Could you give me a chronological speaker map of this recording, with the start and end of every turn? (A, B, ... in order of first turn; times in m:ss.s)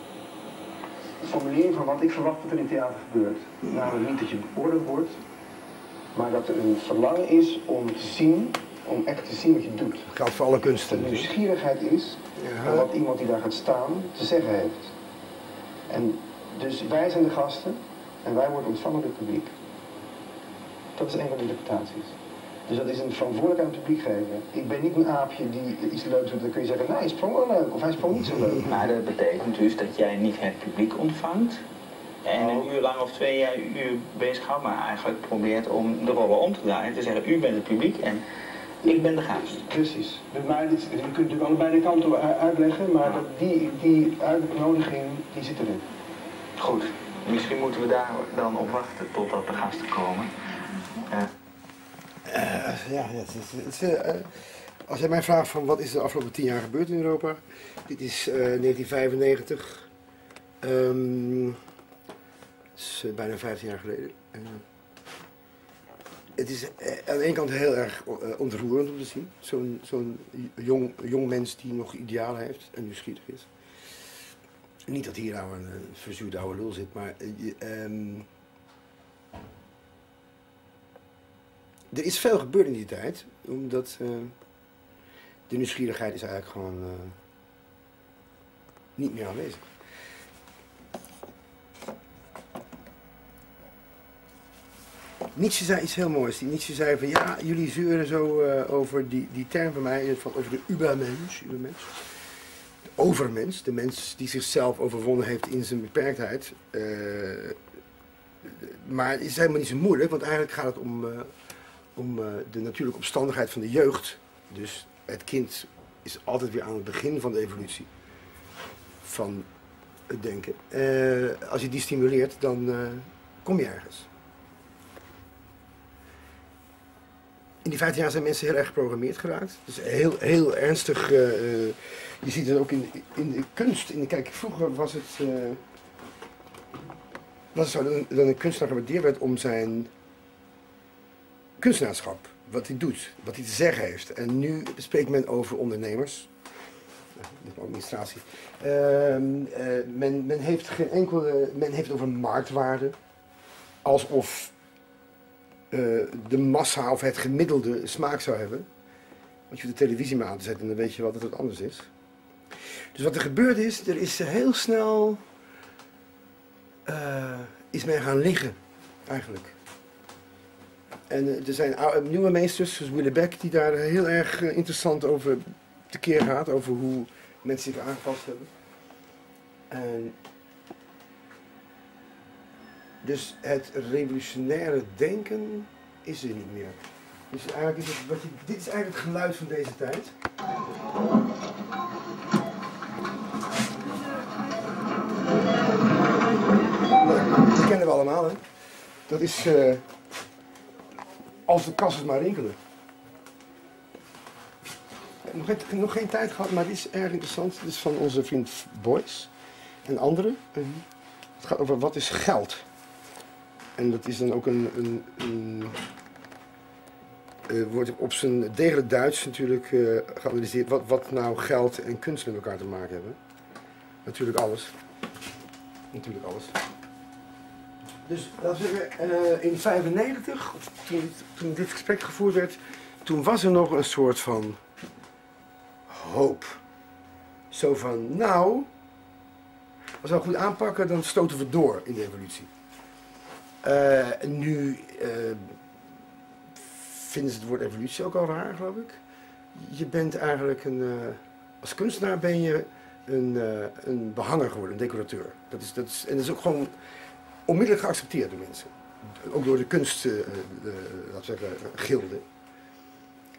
0:01.2-0:05.2 A
0:06.1-0:10.1 A
0:10.1-0:11.3 B
0:10.9-0:14.9 A
0:12.4-0:12.9 B
0:15.9-0:19.5 A
0:21.0-0:28.6 A
0:28.6-0:31.6 C
0:32.2-0:38.2 C
0:32.4-0:32.7 A
0:38.8-0:39.6 C
0:39.5-0:45.8 A
0:46.6-0:50.3 C
0:51.0-0:51.3 C
0:52.2-0:59.9 B
1:00.6-1:01.6 B
1:02.8-1:04.6 B
1:06.4-1:13.5 B
1:14.8-1:18.3 B
1:21.9-1:24.3 B
1:25.5-1:27.2 B
1:29.0-1:29.7 B
1:35.3-1:42.0 B
1:43.0-1:47.6 B
1:48.4-1:51.3 B
1:51.9-1:57.9 B
1:59.0-1:59.5 B
2:00.1-2:04.1 B
2:07.6-2:15.6 B
2:17.5-2:19.9 B
2:21.6-2:26.3 B
2:27.1-2:33.0 B
2:33.8-2:34.5 B
2:35.7-2:38.7 B
2:39.5-2:41.9 B
2:42.9-2:45.2 B
2:46.8-2:49.6 B
2:51.1-2:58.5 B
2:59.7-3:00.2 B
3:03.0-3:06.8 B
3:07.3-3:10.2 B
3:16.9-3:18.4 B
3:19.1-3:19.8 B
3:21.4-3:22.6 B
3:25.2-3:29.3 B
3:29.8-3:30.8 B
3:31.4-3:32.7 B
3:33.8-3:35.8 B
3:37.5-3:43.2 B
3:44.0-3:44.7 B
3:45.9-3:46.6 B
3:48.0-3:54.6 B
3:55.9-3:56.6 B
3:57.5-3:58.7 B
4:00.0-4:02.5 B
4:03.6-4:05.6 B
4:06.5-4:09.0 B
4:09.5-4:16.7 B
4:17.4-4:22.2 B